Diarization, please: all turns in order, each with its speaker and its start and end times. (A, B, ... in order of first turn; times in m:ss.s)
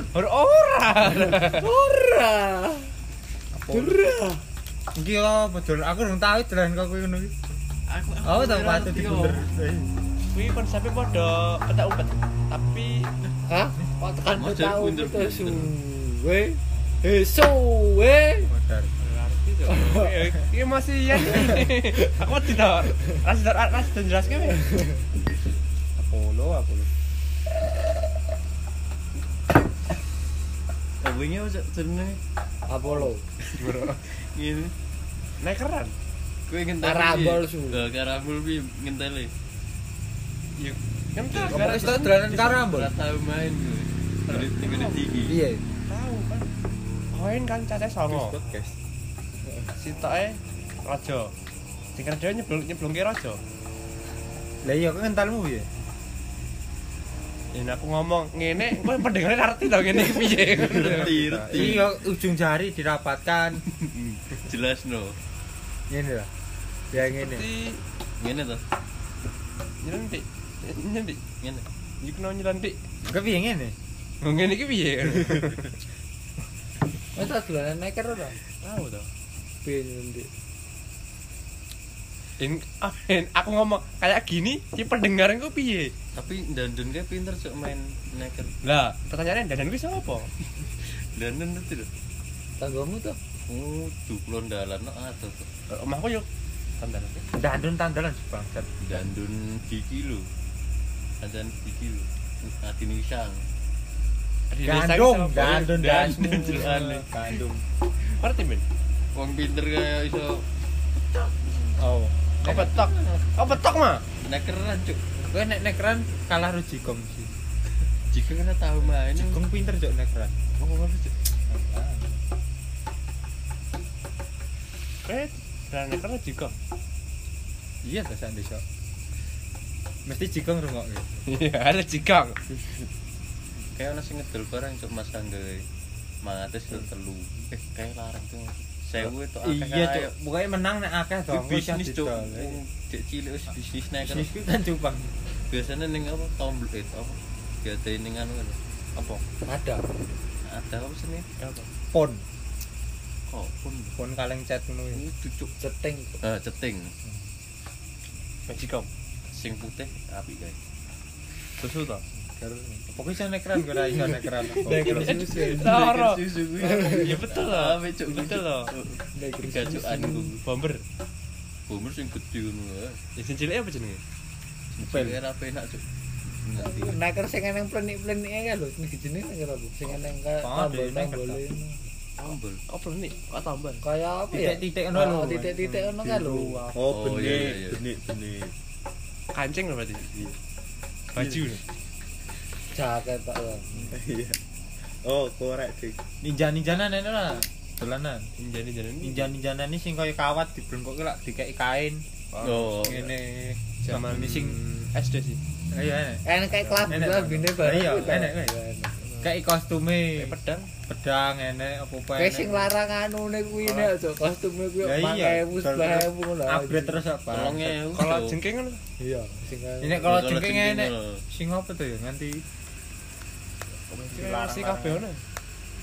0:00.1-0:01.7 A
0:01.4-0:02.9 B
0:03.5-0:04.0 C
0:03.7-0:04.4 B
0:05.0-0:07.3 C
0:07.9-0:09.5 D
0:08.2-0:09.9 C
0:10.3-0:13.1 A
0:13.5-0:18.5 B
0:14.3-0:15.7 D
0:18.4-0:18.9 C
0:19.0-0:24.8 A
0:19.7-0:20.1 B
0:26.0-0:26.9 C
0:31.0-0:32.2 D
0:32.7-0:33.2 B
0:33.6-0:34.0 A
0:33.6-0:34.7 D
0:35.4-0:36.0 A
0:36.5-0:39.3 D
0:36.8-0:37.9 B
0:40.6-0:42.7 A
0:41.3-0:41.8 D
0:41.5-0:42.9 C
0:42.7-0:45.4 D
0:44.3-0:45.1 A
0:45.3-0:45.6 C
0:45.9-0:46.5 A
0:47.1-0:48.4 A
0:48.0-0:48.8 E
0:49.8-0:51.3 A
0:52.0-0:53.4 A
0:54.6-0:55.7 C
0:57.5-1:01.1 A
1:00.3-1:03.6 C
1:00.7-1:01.9 D
1:03.7-1:05.2 D
1:05.9-1:06.3 C
1:06.9-1:07.5 C
1:06.9-1:07.8 A
1:08.2-1:08.6 D
1:09.8-1:11.3 A
1:11.4-1:11.7 D
1:12.0-1:12.8 A
1:13.1-1:13.8 C
1:14.2-1:15.7 A
1:17.1-1:18.4 B
1:18.6-1:19.1 A
1:19.6-1:20.3 B
1:22.4-1:25.9 A
1:26.1-1:28.6 D
1:28.6-1:30.3 A
1:30.8-1:31.9 D
1:32.6-1:33.2 B
1:33.5-1:35.5 D
1:35.7-1:36.3 A
1:36.8-1:37.3 A
1:37.4-1:39.1 C
1:38.8-1:40.3 D
1:41.2-1:43.4 D
1:44.5-1:47.3 A
1:44.6-1:47.6 C
1:45.8-1:47.0 D
1:48.0-1:48.6 A
1:49.2-1:50.4 D
1:51.1-1:51.8 D
1:51.8-1:52.8 C
1:52.4-1:54.0 A
1:52.8-1:53.2 D
1:54.2-1:55.0 D
1:55.2-1:57.3 C
1:58.1-1:59.4 D
1:59.1-2:00.4 C
2:00.6-2:01.1 A
2:01.5-2:02.2 C
2:05.1-2:06.5 A
2:07.8-2:08.6 C
2:10.1-2:11.2 C
2:11.3-2:12.4 A
2:13.6-2:15.7 D
2:16.2-2:20.1 D
2:19.0-2:22.6 C
2:21.3-2:24.3 D
2:24.0-2:25.1 C
2:25.5-2:28.6 D
2:29.5-2:29.8 B
2:30.4-2:31.3 D
2:31.4-2:31.7 A
2:31.9-2:32.2 C
2:33.3-2:34.0 D
2:34.0-2:35.0 C
2:34.9-2:35.5 D
2:35.6-2:36.2 B
2:36.2-2:36.9 D
2:38.5-2:38.9 A
2:39.3-2:40.6 D
2:41.6-2:42.0 A
2:42.2-2:45.2 C
2:44.6-2:45.7 B
2:44.7-2:46.2 A
2:45.3-2:50.4 D
2:46.6-2:47.1 B
2:46.9-2:48.8 A
2:49.2-2:50.3 B
2:50.4-2:50.8 A
2:51.7-2:53.0 D
2:53.2-2:54.0 A
2:54.8-2:55.2 C
2:54.8-2:57.0 D
2:56.6-3:01.8 B
3:00.4-3:01.4 C
3:02.2-3:02.6 D
3:02.7-3:03.8 A
3:03.8-3:06.8 B
3:04.3-3:07.6 C
3:06.7-3:08.5 E
3:06.9-3:07.8 D
3:09.3-3:10.3 A
3:11.1-3:11.6 A
3:11.2-3:11.6 C
3:12.7-3:14.0 B
3:13.9-3:14.4 E
3:15.0-3:16.0 E
3:16.2-3:18.3 C
3:18.4-3:19.3 A
3:19.0-3:22.0 C
3:22.3-3:23.1 A
3:22.4-3:23.1 D
3:22.8-3:24.6 C
3:23.8-3:25.4 A
3:25.7-3:26.2 C
3:26.2-3:29.1 B
3:26.8-3:28.5 C
3:29.2-3:30.3 C
3:30.2-3:30.7 A
3:30.9-3:32.7 C
3:32.2-3:37.0 B
3:33.6-3:33.9 A
3:34.8-3:37.8 C
3:37.3-3:38.4 D
3:37.9-3:38.8 A
3:39.0-3:40.2 B
3:39.8-3:42.4 C
3:40.0-3:41.2 D
3:43.9-3:45.2 A
3:44.1-3:45.0 C